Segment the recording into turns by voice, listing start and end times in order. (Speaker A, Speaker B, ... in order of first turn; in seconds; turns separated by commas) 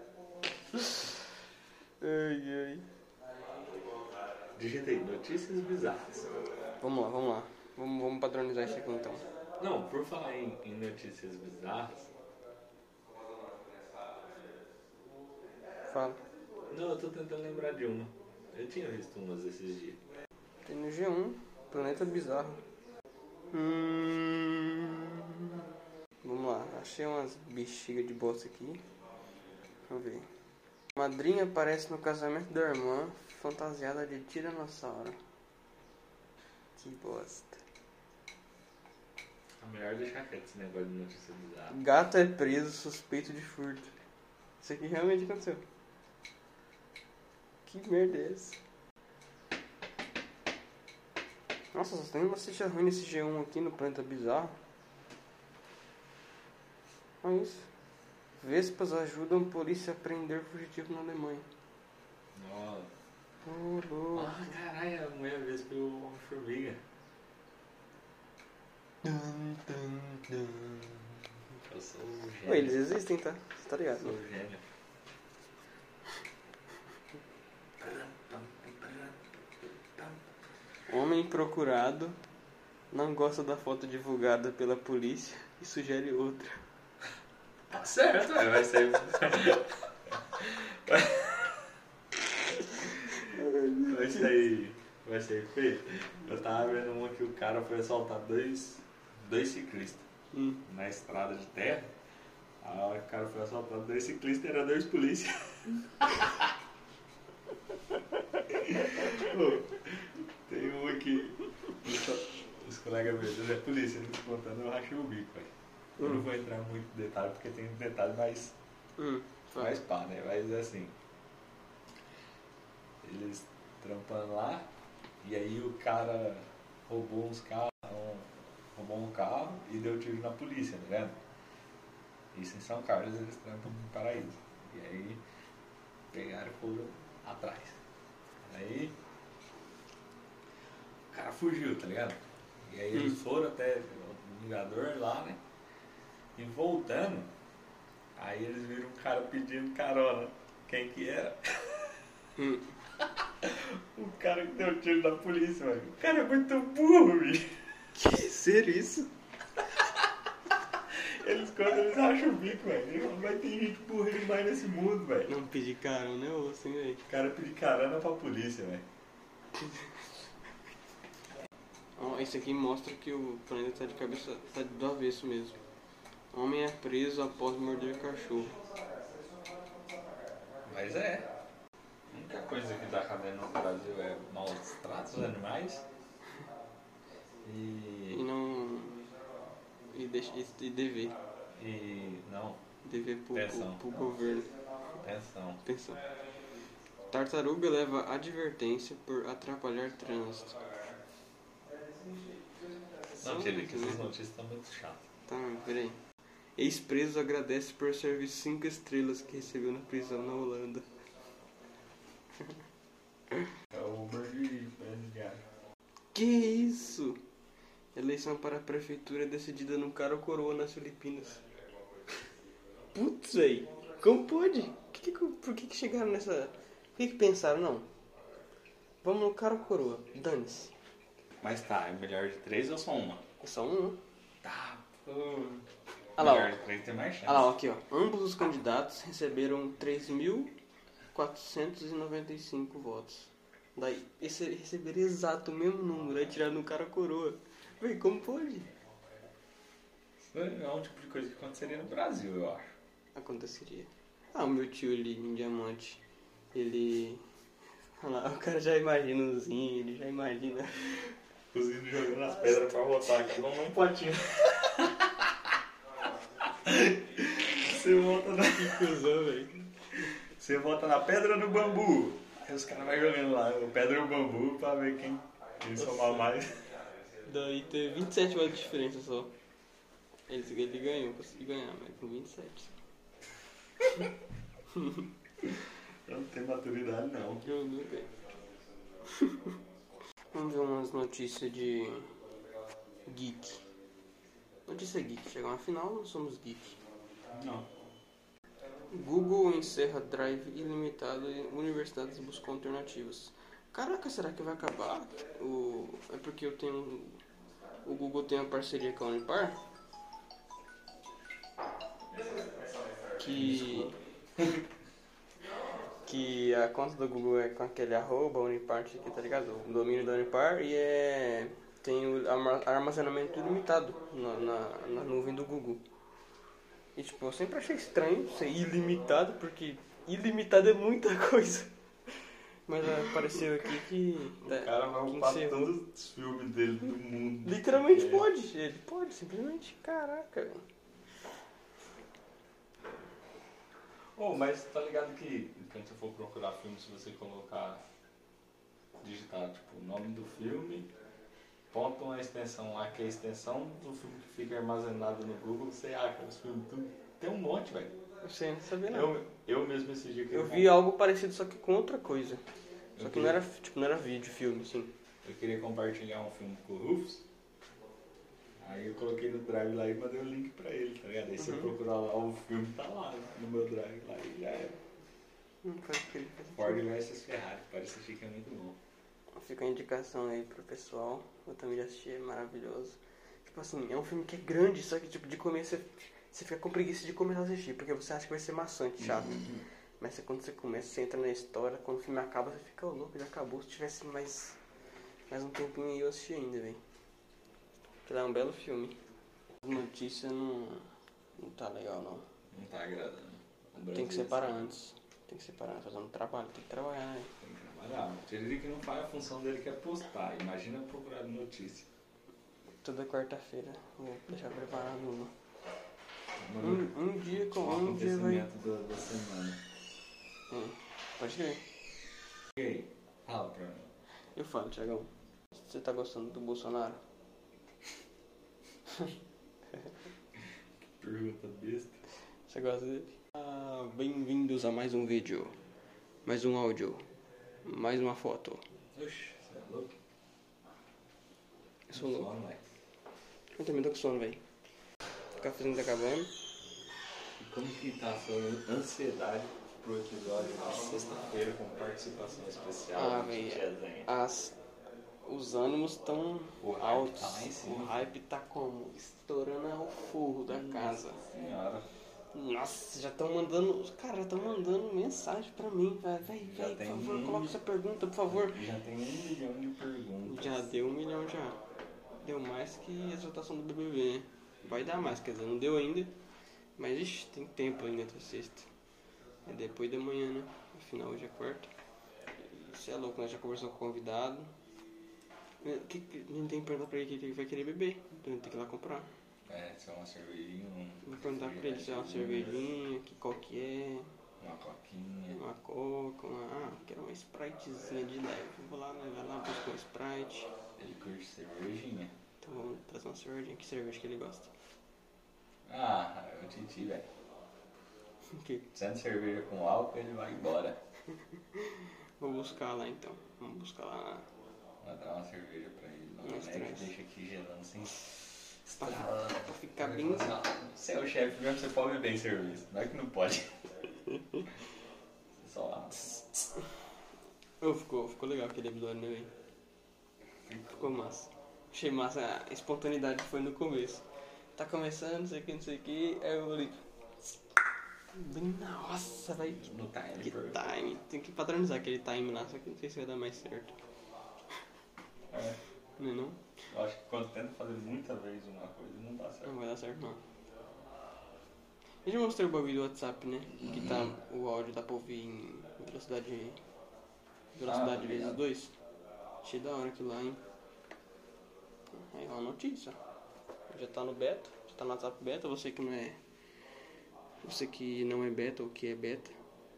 Speaker A: 2.0-2.9, Speaker B: 4.5-6.5, Speaker A: 6.8-9.3, Speaker B: 9.6-12.1, Speaker A: 15.9-16.2, Speaker B: 16.7-20.0, Speaker A: 20.6-22.6, Speaker A: 23.5-25.6, Speaker A: 26.2-28.8, Speaker A: 29.9-30.3, Speaker A: 30.9-35.2, Speaker A: 36.8-37.6, Speaker B: 39.6-41.8, Speaker A: 41.7-43.9, Speaker A: 44.6-45.6, Speaker A: 47.6-48.6, Speaker A: 51.7-54.6, Speaker A: 57.2-57.7, Speaker A: 58.4-61.5, Speaker B: 62.3-62.9, Speaker A: 63.4-64.4, Speaker B: 64.1-66.8, Speaker A: 69.0-71.0, Speaker B: 71.6-72.8, Speaker A: 72.4-74.2, Speaker B: 74.0-74.6, Speaker B: 77.8-79.3, Speaker A: 80.9-82.2, Speaker A: 82.9-86.6, Speaker B: 87.7-91.6, Speaker A: 93.4-94.1, Speaker B: 93.8-100.0, Speaker A: 100.3-100.6, Speaker B: 100.6-101.9, Speaker B: 102.6-106.5, Speaker B: 108.4-118.5, Speaker A: 119.0-119.8, Speaker B: 119.5-120.9, Speaker B: 123.0-124.7, Speaker B: 125.2-131.2, Speaker B: 132.3-135.2, Speaker B: 136.1-137.8, Speaker B: 138.4-138.9, Speaker B: 141.1-145.4, Speaker B: 146.3-147.3, Speaker B: 148.2-152.0, Speaker A: 152.4-152.7, Speaker B: 153.4-157.6, Speaker A: 157.9-159.1, Speaker B: 160.9-165.3, Speaker A: 165.3-167.0, Speaker B: 167.1-168.8, Speaker A: 172.0-175.6, Speaker A: 176.3-178.5, Speaker B: 180.6-181.3, Speaker B: 182.1-185.8, Speaker B: 187.4-188.2, Speaker A: 188.1-189.0, Speaker A: 189.9-191.1, Speaker B: 191.5-192.6, Speaker A: 192.8-194.5, Speaker B: 193.3-193.8, Speaker B: 195.0-195.6, Speaker A: 195.6-196.0, Speaker A: 197.1-200.6, Speaker A: 203.1-204.1, Speaker B: 203.2-205.0, Speaker A: 205.3-206.0, Speaker A: 206.6-210.9, Speaker B: 213.7-215.4, Speaker A: 216.1-217.2, Speaker A: 217.9-221.4, Speaker A: 222.9-227.9, Speaker A: 229.0-230.7, Speaker B: 231.4-233.2, Speaker A: 233.4-234.0, Speaker B: 234.4-235.6, Speaker B: 236.2-237.5, Speaker A: 236.2-236.6, Speaker A: 237.2-240.5, Speaker A: 241.1-248.7, Speaker B: 250.2-252.7, Speaker A: 253.1-256.0, Speaker A: 256.5-257.2, Speaker A: 258.0-261.1, Speaker B: 261.5-265.5, Speaker B: 266.4-268.9, Speaker A: 268.4-270.1, Speaker B: 270.2-276.7, Speaker A: 275.8-276.3, Speaker A: 277.2-279.3, Speaker A: 280.3-282.7, Speaker A: 284.7-285.0, Speaker B: 286.1-287.4, Speaker A: 287.4-288.1, Speaker A: 289.1-289.6, Speaker A: 290.3-292.1, Speaker A: 293.1-293.6, Speaker A: 294.7-296.8, Speaker B: 297.3-297.7, Speaker A: 298.9-307.2, Speaker A: 307.8-309.6, Speaker B: 312.1-312.5, Speaker A: 313.2-313.9, Speaker B: 313.2-314.5, Speaker A: 316.0-325.8, Speaker A: 326.9-331.7, Speaker A: 332.7-335.7, Speaker B: 334.4-338.3, Speaker A: 337.4-340.6, Speaker B: 344.1-347.8, Speaker B: 349.0-350.9, Speaker B: 351.7-358.0, Speaker A: 358.2-359.1, Speaker B: 358.9-360.8, Speaker A: 360.3-362.4, Speaker B: 362.9-363.4, Speaker A: 363.0-364.9, Speaker B: 365.2-367.2, Speaker B: 368.6-374.8, Speaker A: 371.4-371.7, Speaker A: 375.6-376.8, Speaker B: 376.5-378.8, Speaker A: 379.3-394.6, Speaker A: 395.3-396.8, Speaker A: 398.0-399.0, Speaker A: 399.6-400.9, Speaker A: 401.4-402.2, Speaker B: 402.5-404.7, Speaker A: 403.9-407.3, Speaker B: 407.4-411.9, Speaker A: 412.8-415.3, Speaker B: 416.4-419.6, Speaker A: 416.6-418.4, Speaker A: 420.5-421.6, Speaker B: 422.5-423.9, Speaker A: 424.3-427.0, Speaker B: 431.0-432.0, Speaker A: 432.5-435.5, Speaker A: 436.2-437.0, Speaker A: 437.6-438.6, Speaker B: 438.9-439.9, Speaker A: 441.9-442.3, Speaker B: 441.9-442.6, Speaker A: 443.6-444.4, Speaker A: 445.4-446.3, Speaker B: 447.4-454.1, Speaker A: 452.9-454.6, Speaker A: 455.2-461.2, Speaker B: 456.6-458.0, Speaker B: 460.5-461.9, Speaker A: 462.3-468.6, Speaker B: 466.4-467.6, Speaker B: 468.3-470.6, Speaker A: 470.2-471.6, Speaker A: 472.2-476.1, Speaker A: 476.8-478.7, Speaker A: 479.4-481.7, Speaker A: 482.4-484.5, Speaker A: 485.6-489.1, Speaker B: 489.5-492.7, Speaker A: 491.0-494.1, Speaker B: 494.4-495.4, Speaker A: 495.3-500.5, Speaker B: 500.8-502.1, Speaker A: 502.4-504.5, Speaker B: 505.6-507.1, Speaker A: 508.3-508.7, Speaker B: 508.7-510.8, Speaker A: 511.5-514.3, Speaker B: 514.8-518.1, Speaker A: 516.2-516.9, Speaker B: 518.6-523.5, Speaker A: 518.8-520.3, Speaker A: 524.1-524.4, Speaker B: 525.4-526.5, Speaker A: 527.6-529.3, Speaker B: 530.5-530.9, Speaker A: 530.7-534.0, Speaker A: 534.5-536.8, Speaker A: 538.1-539.6, Speaker B: 539.4-540.7, Speaker A: 540.2-543.7, Speaker B: 545.3-545.6, Speaker A: 546.0-546.4, Speaker B: 546.7-549.5, Speaker A: 549.4-550.2, Speaker A: 552.0-556.6, Speaker A: 557.5-558.7, Speaker B: 557.6-558.4, Speaker A: 559.4-560.4, Speaker A: 561.9-563.0, Speaker A: 563.7-566.2, Speaker A: 567.4-569.3